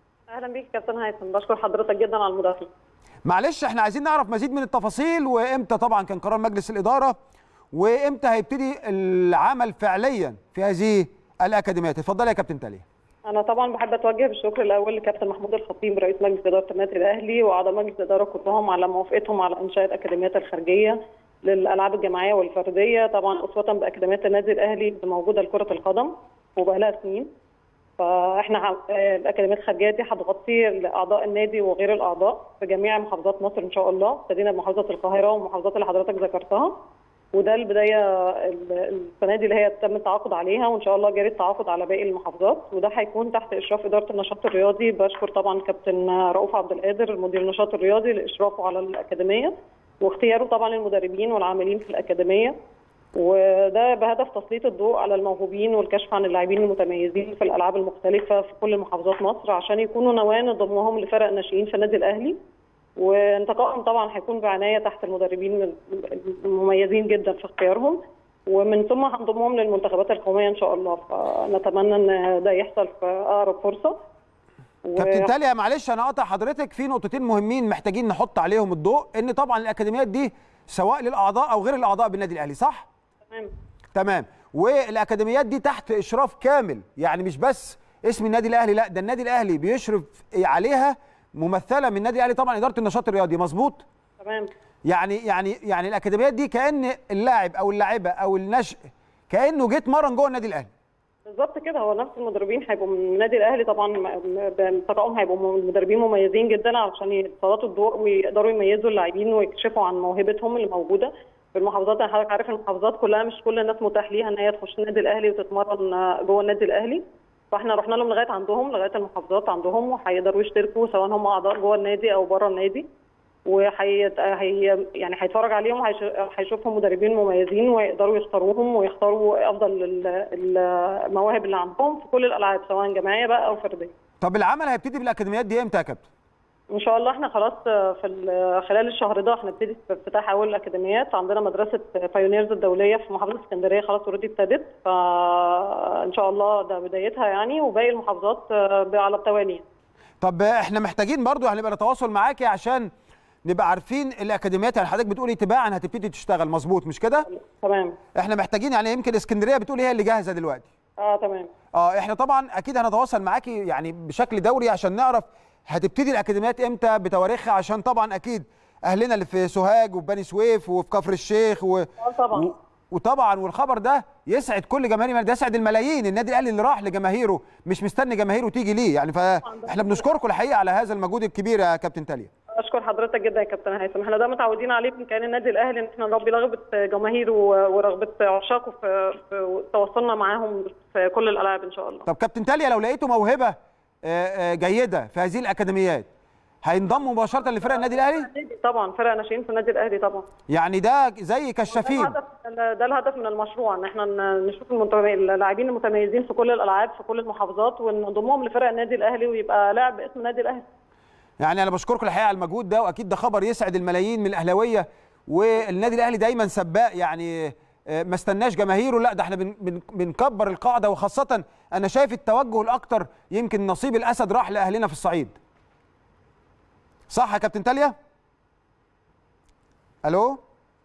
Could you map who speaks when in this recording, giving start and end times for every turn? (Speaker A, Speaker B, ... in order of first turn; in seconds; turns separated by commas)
Speaker A: 0.3-2.7, Speaker B: 3.2-7.2, Speaker B: 7.7-12.8, Speaker A: 13.2-27.3, Speaker A: 28.0-36.7, Speaker A: 37.3-52.5, Speaker A: 53.1-62.4, Speaker A: 63.0-74.0, Speaker A: 74.8-75.3, Speaker B: 75.0-82.9, Speaker B: 83.9-93.8, Speaker A: 94.2-94.5, Speaker B: 94.9-98.8, Speaker B: 99.3-100.7, Speaker A: 101.2-122.8, Speaker A: 123.5-133.9, Speaker B: 134.2-136.0, Speaker A: 136.7-149.6, Speaker B: 150.2-152.9, Speaker B: 153.4-157.3, Speaker A: 157.3-158.0, Speaker B: 158.1-160.7, Speaker A: 161.0-161.5, Speaker B: 161.7-182.3, Speaker A: 172.0-172.5, Speaker A: 179.4-180.1, Speaker A: 182.6-192.1, Speaker B: 192.1-196.1, Speaker B: 196.6-198.3, Speaker A: 197.4-200.3, Speaker B: 200.5-202.1, Speaker A: 201.7-210.6, Speaker B: 211.4-225.3, Speaker B: 227.1-227.9, Speaker B: 230.0-230.4